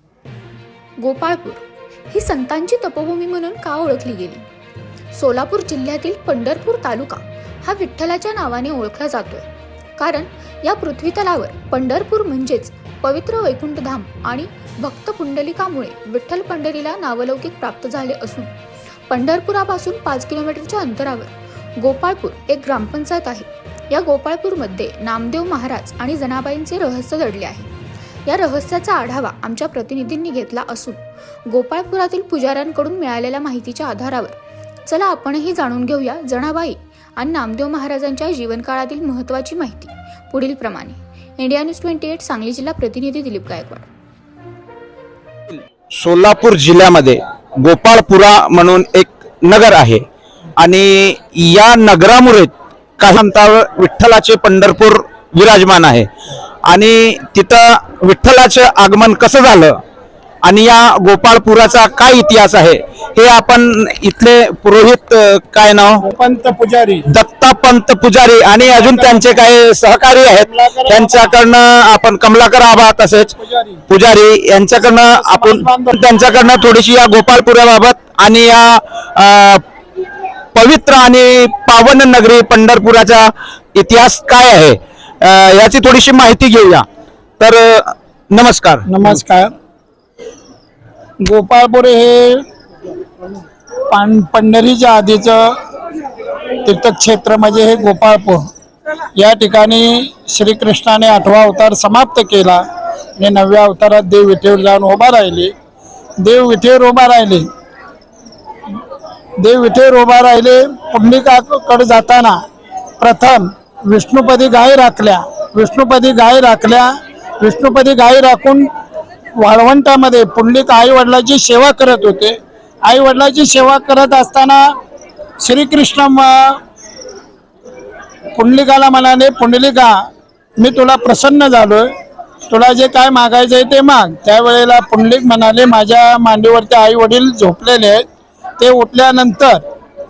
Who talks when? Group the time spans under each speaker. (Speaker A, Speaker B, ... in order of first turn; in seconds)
Speaker A: 1.0-4.5, 5.1-9.5, 10.0-18.5, 19.1-27.7, 28.3-43.9
Speaker B: 46.0-50.0, 50.6-56.1, 56.7-59.8, 60.4-66.0, 67.1-73.3, 73.9-79.6, 80.5-86.8, 87.4-89.2
Speaker C: 66.0-67.0, 68.7-69.3, 70.4-71.4, 73.3-73.8, 75.2-75.9, 88.9-89.5, 91.2-92.4, 93.9-95.6, 96.6-98.5, 99.2-102.6, 103.2-105.5, 106.2-107.5, 109.4-112.3, 113.0-118.7, 119.4-124.7, 125.4-126.6, 128.3-129.9, 130.6-131.9, 132.5-138.0, 138.6-139.6